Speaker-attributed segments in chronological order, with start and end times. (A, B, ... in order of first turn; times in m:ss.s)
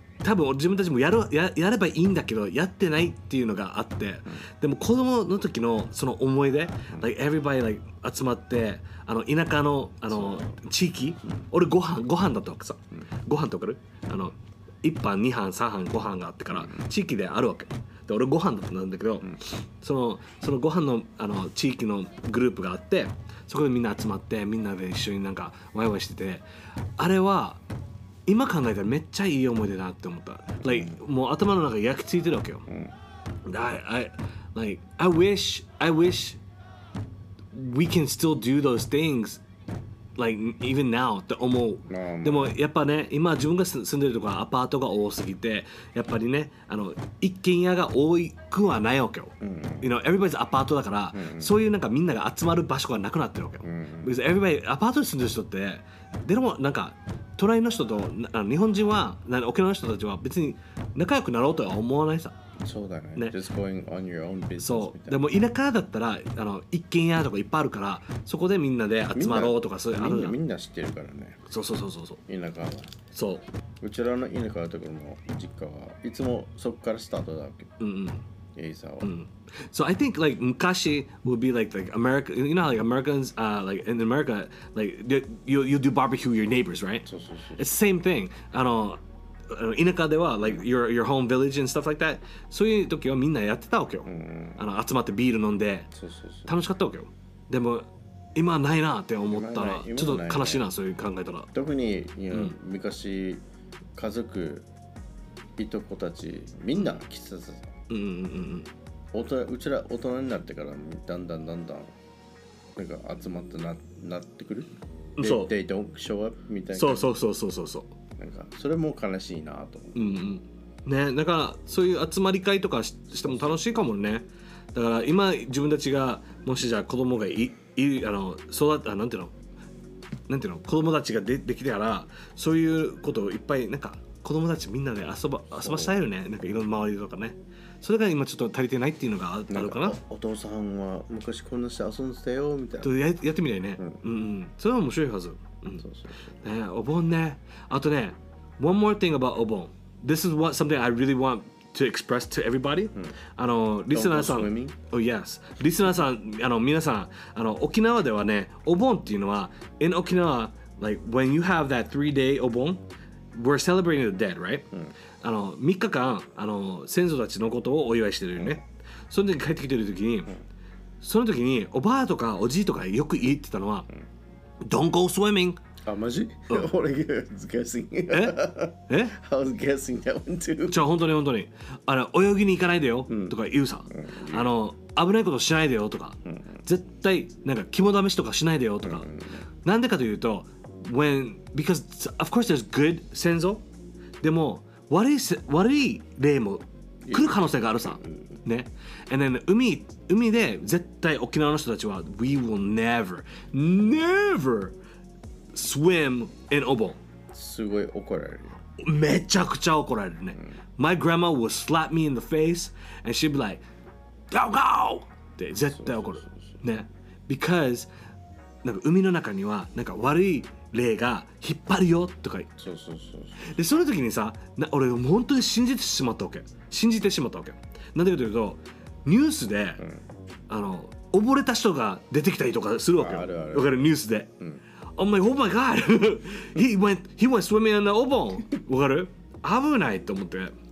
0:00.2-0:26.4 A
0:10.1-0:10.6 B
0:16.5-0:16.9 B
0:27.0-0:27.6 A
0:28.3-0:32.7 A
0:30.6-0:31.0 B
0:32.7-0:33.0 B
0:33.5-0:36.4 A
0:37.5-0:39.4 A
0:40.2-1:02.4 A
0:41.9-0:42.6 B
0:49.4-0:49.9 B
0:51.1-0:51.5 B
0:53.6-0:54.1 B
1:02.6-1:05.2 B
1:04.6-1:10.4 A
1:09.1-1:11.4 B
1:11.5-1:12.2 A
1:12.3-1:13.0 B
1:13.1-1:13.4 A
1:13.8-1:17.7 B
1:17.8-1:18.2 A
1:18.6-1:19.1 B
1:19.0-1:35.9 A
1:27.1-1:27.7 B
1:34.1-1:34.6 B
1:35.9-1:36.5 B
1:36.5-1:41.5 A
1:39.3-1:40.7 B
1:41.5-1:43.4 B
1:44.0-1:44.7 B
1:45.6-1:47.7 B
1:47.9-1:48.7 A
1:49.1-1:51.9 B
1:52.8-1:57.2 B
1:55.2-1:55.5 A
1:56.7-1:57.9 A
1:58.2-2:00.0 B
2:00.0-2:09.3 A
2:03.3-2:03.6 B
2:10.3-2:20.0 A
2:15.6-2:16.0 B
2:19.5-2:23.0 B
2:22.8-2:25.8 A
2:25.8-2:26.3 B
2:26.4-2:44.7 A
2:33.9-2:34.8 B
2:45.2-2:50.4 A
2:51.0-2:53.9 A
2:54.6-2:55.6 A
2:55.9-3:00.8 B
2:58.1-2:59.2 A
3:00.7-3:09.1 A
3:03.1-3:03.4 B
3:03.9-3:04.5 B
3:06.3-3:06.6 B
3:08.8-3:09.4 B
3:09.6-3:13.6 A
3:14.2-3:24.8 A
3:17.0-3:18.4 B
3:25.5-3:27.0 A
3:27.3-3:28.6 B
3:28.8-3:33.6 A
3:34.3-3:37.9 A
3:35.7-3:36.6 B
3:38.6-3:42.5 A
3:42.6-3:43.7 B
3:43.4-3:49.8 A
3:50.5-3:54.3 A
3:53.0-3:53.9 B
3:55.0-4:00.5 A